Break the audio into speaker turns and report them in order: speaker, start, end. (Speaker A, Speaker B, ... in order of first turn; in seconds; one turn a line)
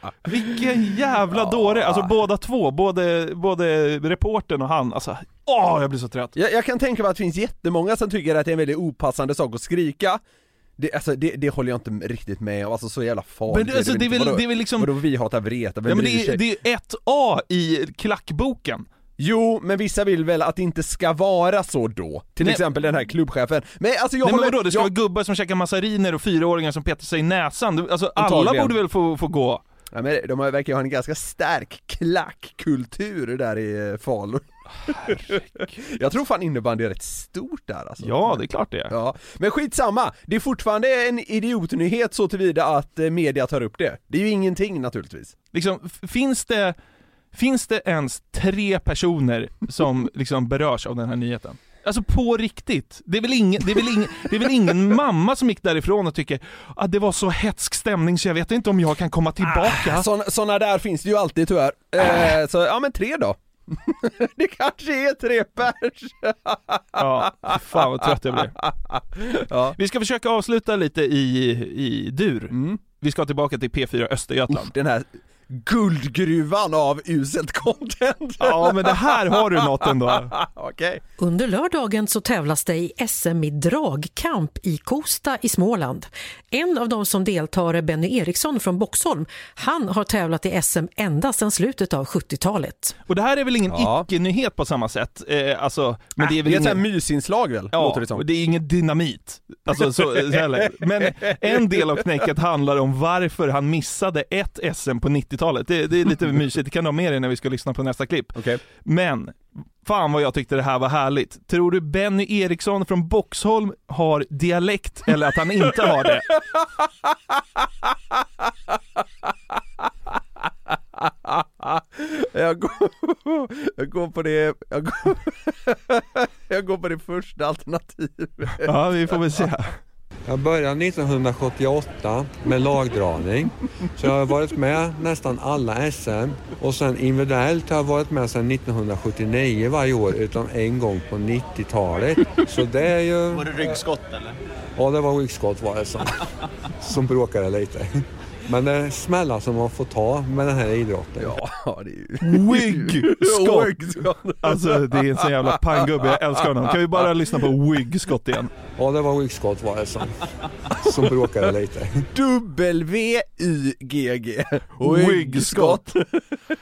Speaker A: 0.2-6.3
Speaker B: 1.3-2.1
Speaker B: 6.4-10.2
Speaker B: 10.8-16.4
Speaker A: 13.5-14.9
Speaker A: 15.9-18.9
Speaker B: 19.2-24.9
Speaker A: 24.2-29.6
Speaker B: 28.2-28.7
Speaker B: 29.9-45.4
Speaker A: 35.0-35.4
Speaker A: 38.0-38.9
Speaker A: 45.5-46.8
Speaker A: 47.3-60.1
Speaker B: 59.4-67.5
Speaker A: 67.0-68.5
Speaker B: 68.9-69.8
Speaker A: 69.8-74.7
Speaker B: 72.5-72.8
Speaker B: 74.5-79.4
Speaker A: 78.4-80.3
Speaker B: 80.2-81.0
Speaker C: 81.2-92.9
Speaker A: 93.1-96.8
Speaker B: 93.7-94.1
Speaker B: 96.2-98.2
Speaker A: 97.7-116.3
Speaker B: 99.7-102.0
Speaker B: 120.7-128.7
Speaker A: 128.6-129.8
Speaker D: 130.3-143.8
Speaker D: 144.8-146.1
Speaker D: 146.8-151.4
Speaker B: 151.2-155.0
Speaker A: 152.2-153.8
Speaker A: 154.4-158.5
Speaker D: 158.8-160.2
Speaker D: 160.8-162.1
Speaker B: 162.1-166.2
Speaker A: 164.8-165.8